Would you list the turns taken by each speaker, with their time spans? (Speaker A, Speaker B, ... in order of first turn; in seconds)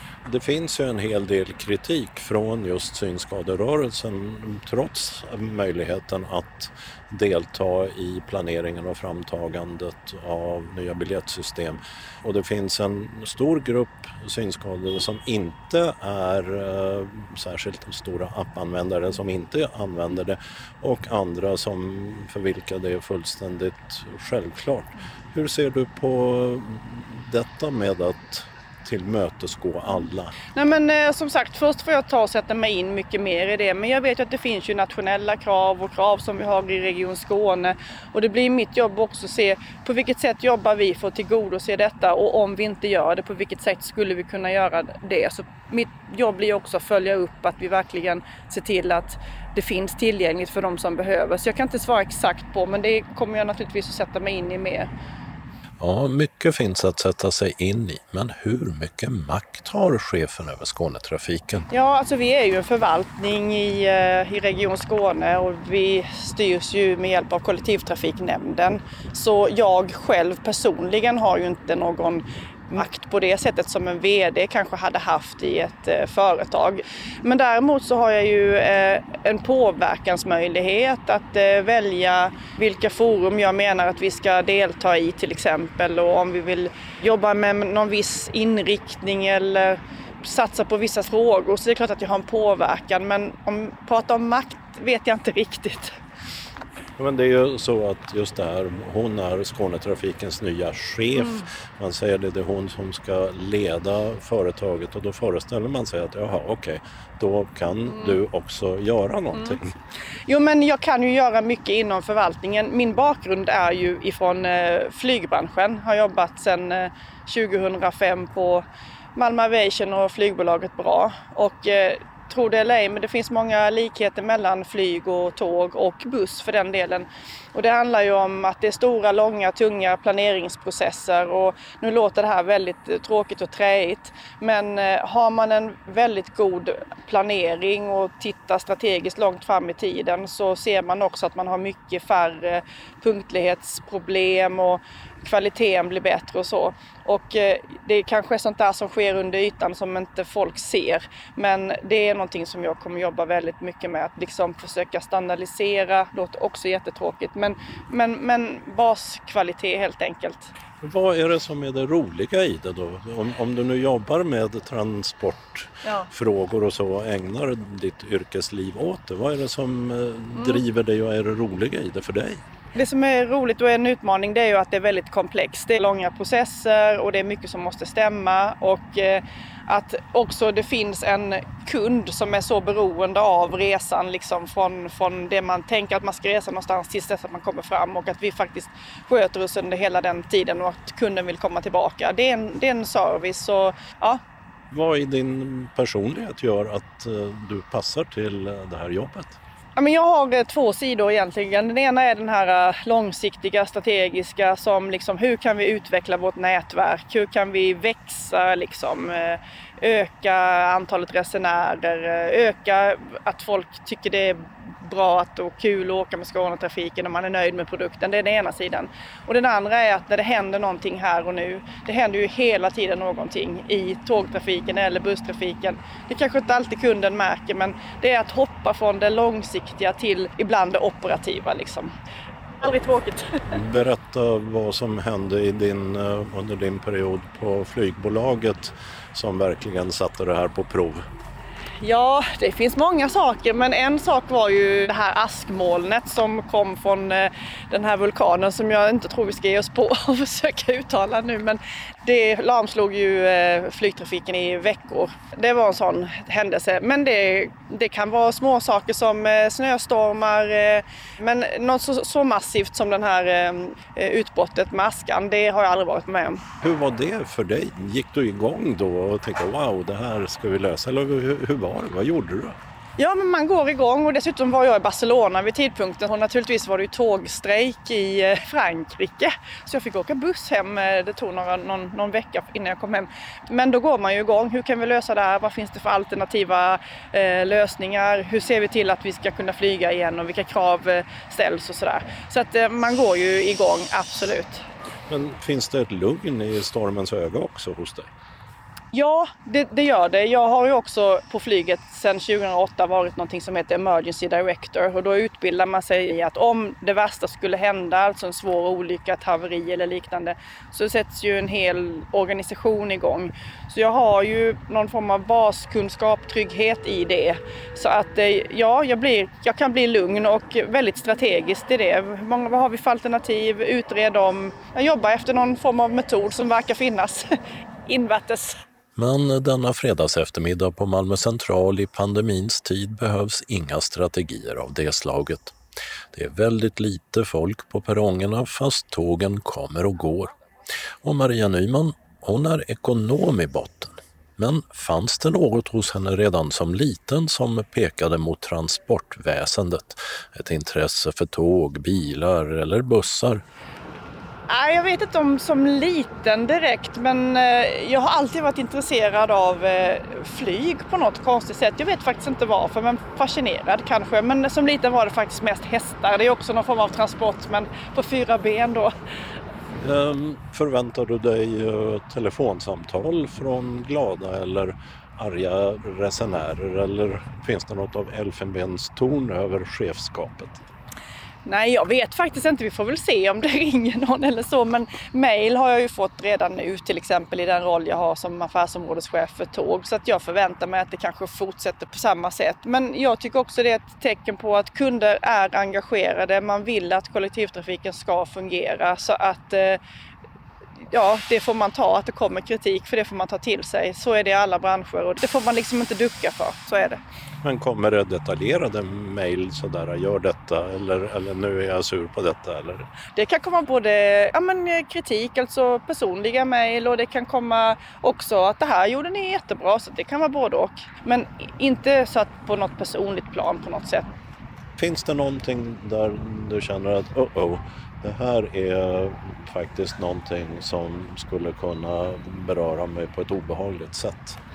Speaker A: 0.3-30.4, 55.8-61.7, 97.0-109.8, 160.8-172.4, 194.7-199.4, 233.5-241.0, 266.6-272.6, 295.1-298.1, 329.0-335.6, 336.1-340.3, 341.0-353.4, 369.8-380.6, 407.4-412.9, 424.8-434.4
Speaker B: 30.5-54.9, 61.7-96.0, 101.2-101.5, 107.9-108.2, 109.3-109.6, 110.3-160.5, 170.3-170.6, 172.8-194.2, 199.8-231.9, 232.6-233.6, 241.8-266.4, 273.0-294.6, 298.9-327.3, 327.9-328.6, 354.5-368.9, 381.4-399.8, 400.9-407.0, 413.1-424.1